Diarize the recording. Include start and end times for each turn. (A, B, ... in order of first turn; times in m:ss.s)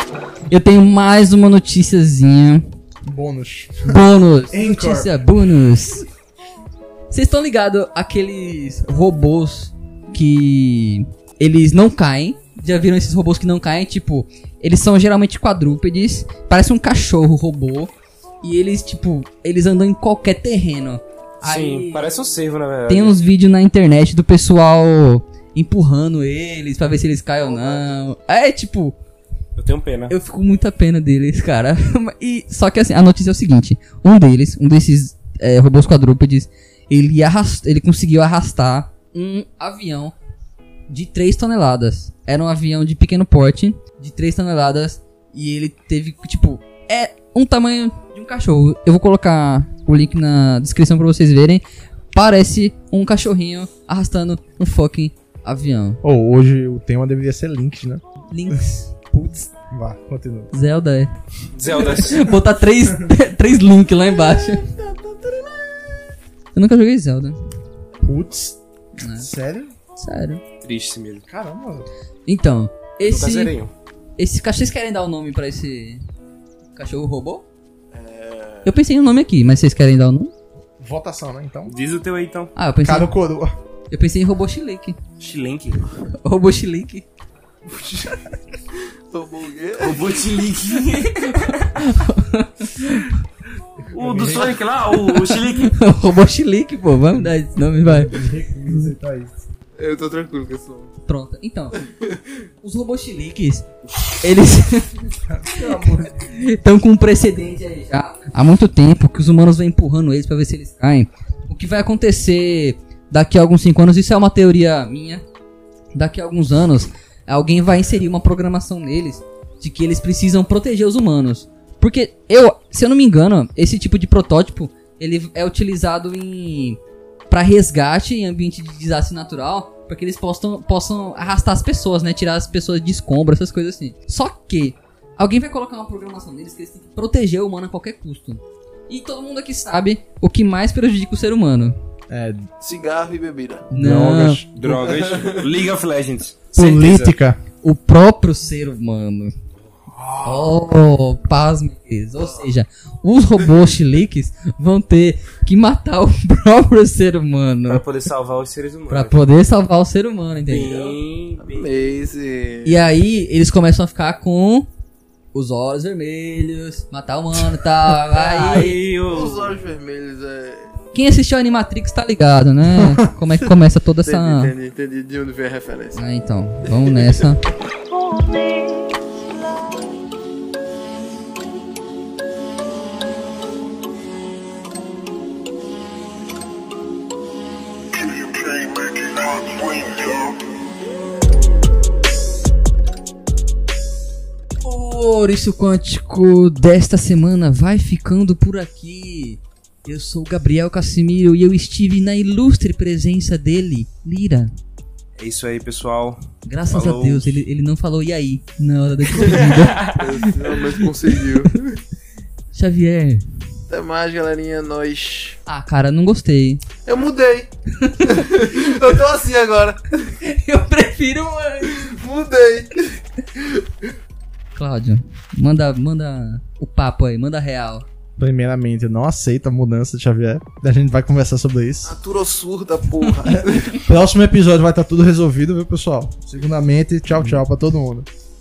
0:00.5-0:02.6 A
0:03.0-0:05.1 B
0:03.8-0:06.0 A
0:07.1-0:22.0 A
0:21.4-0:23.2 C
0:22.9-0:29.0 A
0:27.4-0:28.0 D
0:29.6-0:30.1 C
0:30.1-0:40.1 A
0:40.9-0:51.6 A
0:52.1-0:56.0 A
0:56.0-0:58.6 B
0:58.3-0:58.9 A
0:59.1-1:00.5 B
1:00.5-1:01.1 A
1:01.5-1:02.3 C
1:01.6-1:04.6 A
1:03.9-1:05.9 D
1:06.5-1:07.4 A
1:08.0-1:09.7 B
1:09.0-1:09.3 A
1:10.0-1:10.4 A
1:10.6-1:11.2 C
1:11.3-1:11.9 B
1:12.2-1:13.6 A
1:13.1-1:13.7 C
1:14.2-1:16.0 A
1:16.8-1:17.4 A
1:17.9-1:18.7 D
1:18.6-1:20.3 A
1:20.8-1:21.7 B
1:21.7-1:22.5 C
1:22.6-1:23.1 A
1:22.8-1:23.5 B
1:23.9-1:25.0 A
1:25.2-1:25.9 C
1:26.1-1:27.0 A
1:27.7-1:28.3 D
1:29.1-1:30.1 D
1:29.8-1:31.7 C
1:31.2-1:33.1 A
1:33.9-1:34.6 B
1:33.9-1:35.7 C
1:34.9-1:38.9 A
1:37.8-1:39.4 B
1:39.8-1:40.9 D
1:41.0-1:41.8 A
1:42.6-1:43.6 A
1:44.2-1:44.9 A
1:45.2-1:46.3 B
1:45.6-1:55.2 A
1:55.9-2:06.8 A
2:07.3-2:21.7 A
2:22.1-2:22.5 B
2:22.6-2:23.7 D
2:23.7-2:24.4 B
2:23.7-2:24.4 A
2:24.5-2:27.1 C
2:24.6-2:25.4 D
2:26.5-2:27.4 B
2:27.6-2:29.3 A
2:30.2-2:37.8 A
2:37.7-2:39.2 C
2:38.9-2:40.9 A
2:40.5-2:41.7 C
2:41.4-2:42.8 D
2:42.6-2:44.7 A
2:45.3-2:48.8 A
2:48.1-2:49.6 C
2:49.1-2:50.7 D
2:50.9-2:54.5 A
2:52.7-2:53.5 B
2:54.0-2:56.0 D
2:55.9-2:57.4 A
2:56.7-2:57.2 D
3:14.6-3:24.5 A
3:25.2-3:27.4 C
3:26.4-3:31.3 A
3:29.1-3:30.1 C
3:29.2-3:31.8 D
3:32.5-3:33.2 A
3:33.7-3:35.4 D
3:35.4-3:36.6 A
3:36.8-3:37.5 D
3:37.8-3:38.2 A
3:38.0-3:39.8 D
3:40.2-3:41.9 A
3:41.7-3:43.6 D
3:44.6-3:47.8 A
3:48.2-3:51.9 B
3:51.8-3:53.8 D
3:53.8-3:58.1 B